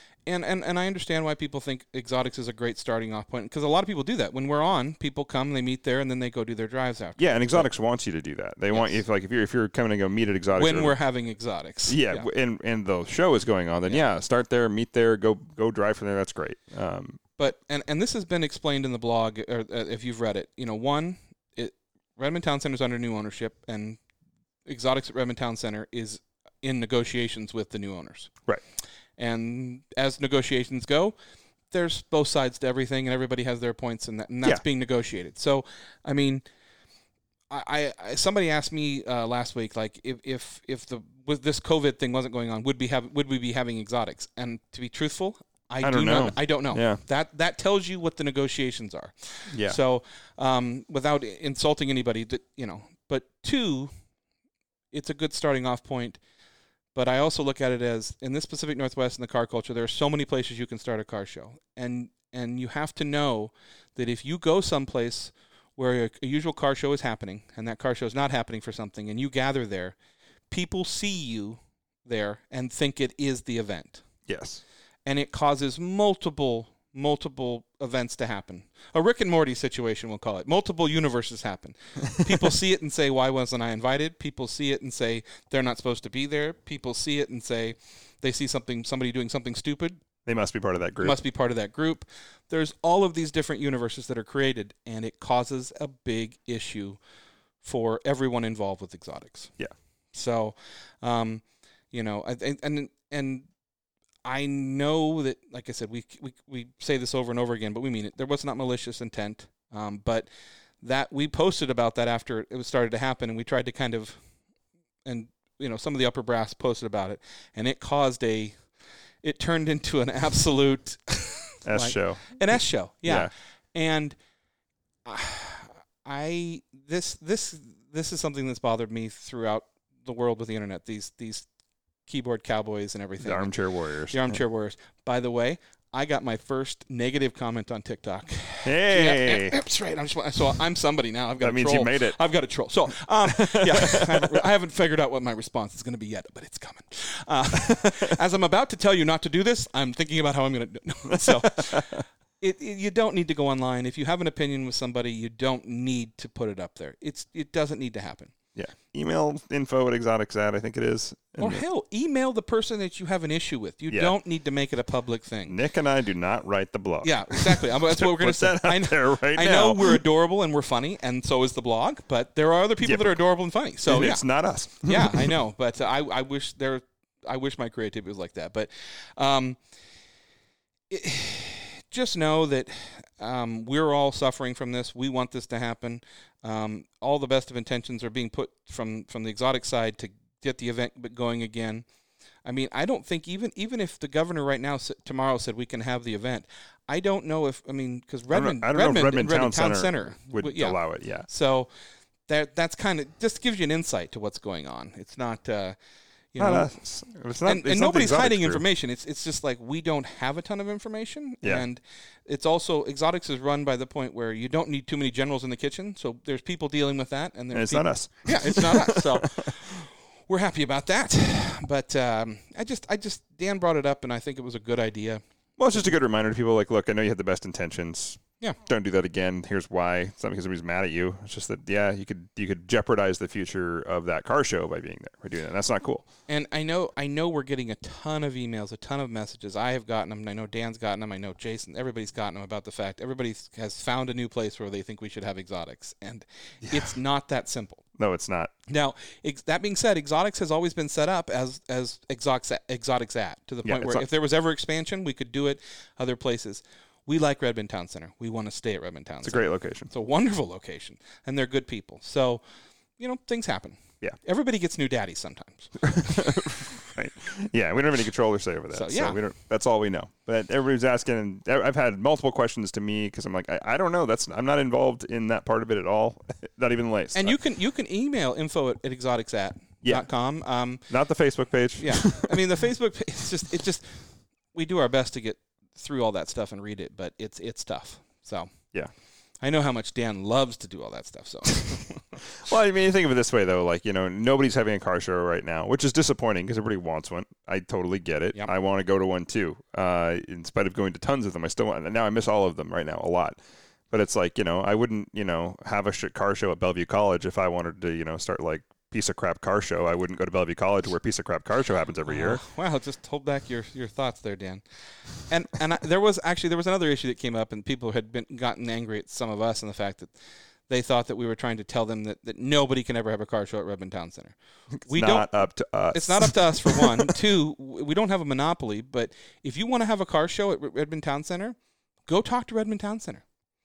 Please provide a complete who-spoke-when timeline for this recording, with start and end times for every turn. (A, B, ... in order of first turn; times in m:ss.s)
0:00.2-0:07.7 A
0:07.2-0:11.0 B
0:08.7-0:09.0 A
0:10.5-0:12.3 A
0:11.9-0:17.2 B
0:17.4-0:24.0 A
0:24.6-0:28.3 A
0:29.2-0:31.1 A
0:31.7-0:36.4 A
0:37.5-0:53.9 A
0:45.8-0:47.0 B
0:49.5-0:49.8 B
0:54.9-0:56.2 A
0:56.9-1:09.9 A
1:10.5-1:14.0 A
1:14.3-1:14.6 B
1:15.0-1:30.0 A
1:30.2-1:31.2 B
1:31.0-1:37.0 A
1:37.6-1:39.5 A
1:40.1-1:43.5 A
1:44.2-1:50.3 A
1:50.8-1:54.2 A
1:55.0-1:58.6 A
1:59.2-2:04.2 A
2:01.6-2:03.3 B
2:05.0-2:11.5 A
2:12.1-2:13.5 A
2:13.2-2:14.4 B
2:14.1-2:38.3 A
2:18.6-2:19.6 B
2:21.4-2:22.2 B
2:23.2-2:24.4 B
2:27.6-2:27.9 B
2:31.1-2:31.8 B
2:38.5-2:41.6 B
2:41.4-2:45.6 A
2:43.9-2:44.1 B
2:45.5-2:50.0 B
2:47.0-2:54.2 A
2:52.8-2:53.2 B
2:53.8-2:55.4 B
2:54.8-2:59.6 A
3:00.9-3:11.8 A
3:12.4-3:21.7 A
3:18.3-3:21.3 B
3:22.3-3:25.8 A
3:26.3-3:26.7 A
3:26.4-3:28.6 B
3:27.4-3:45.2 A
3:37.5-3:39.4 B
3:45.6-3:56.0 B
3:56.3-4:07.8 A
4:06.6-4:06.9 B
4:08.0-4:08.5 B
4:08.7-4:22.4 A
4:13.6-4:14.1 B
4:19.2-4:19.9 B
4:23.0-4:26.5 A
4:25.8-4:37.4 B
4:28.7-4:29.2 A
4:37.1-4:40.8 A
4:39.8-4:40.1 B
4:40.9-4:42.4 B
4:41.8-4:48.5 A
4:49.4-4:52.2 A
4:52.4-5:03.4 B
5:03.9-5:12.4 B
5:12.0-5:14.6 A
5:15.2-5:20.1 A
5:20.7-5:24.4 A
5:24.9-5:27.1 B
5:24.9-5:33.2 A